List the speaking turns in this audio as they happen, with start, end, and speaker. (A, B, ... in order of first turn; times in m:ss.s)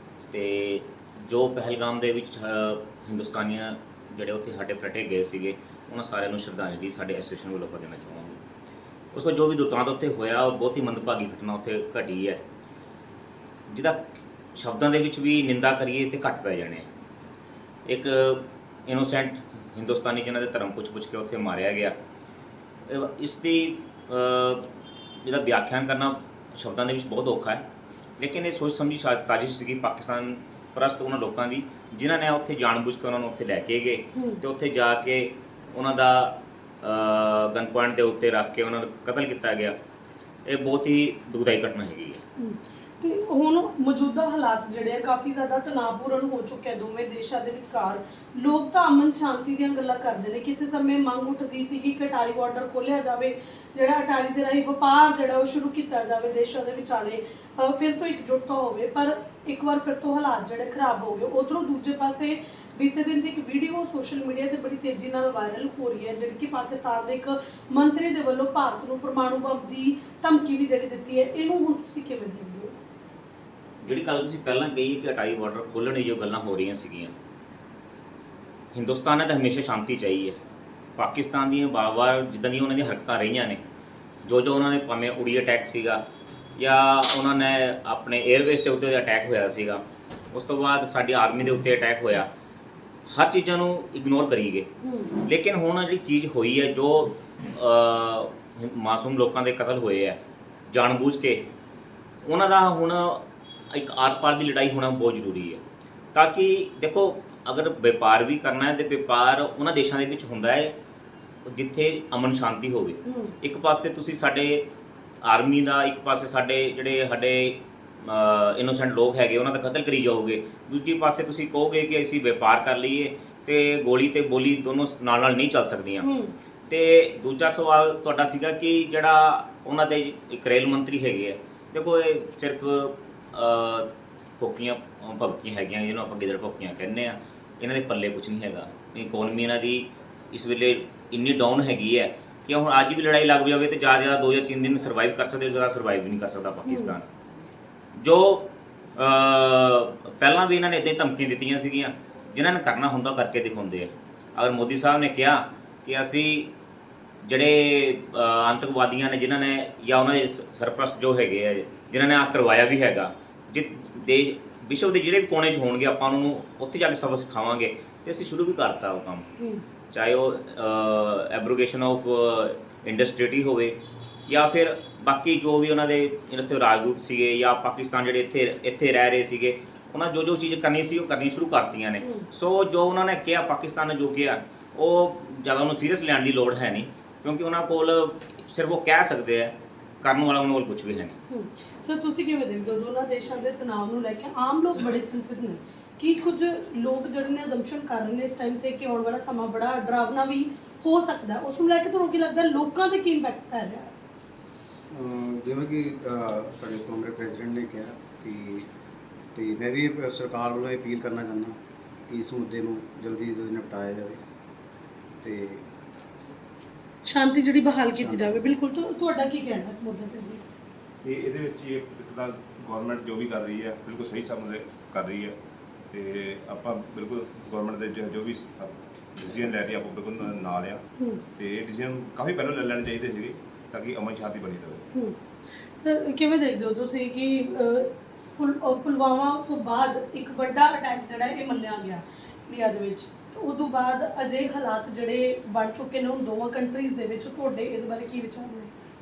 0:00.3-0:08.4 A
0:09.1-0:12.4 A
0:13.7-0:16.9 A
0:17.9-0:21.9 A
0:22.9-0:24.7 A
0:25.2-0:27.6 A
0:28.2-0:39.7 A
0:34.1-0:34.4 B
0:40.4-0:42.2 A
0:42.4-1:12.8 B
1:13.8-1:17.1 A
1:18.7-1:20.3 A
1:21.0-1:23.6 A
1:24.2-1:26.0 A
1:26.6-1:29.8 A
1:30.3-1:32.3 A
1:33.1-1:34.7 A
1:34.8-1:35.1 B
1:35.2-1:40.2 A
1:40.7-1:41.4 A
1:42.2-1:45.6 A
1:46.1-1:50.7 A
1:51.4-1:54.6 A
1:53.0-1:53.3 B
1:55.2-2:06.0 A
2:06.0-2:06.3 B
2:06.7-2:13.9 A
2:14.4-2:27.1 A
2:26.7-2:26.9 B
2:28.0-2:36.5 A
2:37.2-2:49.2 A
2:49.9-2:53.7 A
2:54.3-3:11.2 A
3:11.3-3:23.9 B
3:24.9-3:28.7 C
3:29.3-3:31.6 C
3:32.1-3:34.2 C
3:35.2-3:35.7 C
3:37.0-3:40.4 B
3:38.0-3:38.4 C
3:41.0-3:45.3 D
3:45.9-3:50.8 D
3:51.4-3:54.8 D
3:55.8-4:08.7 B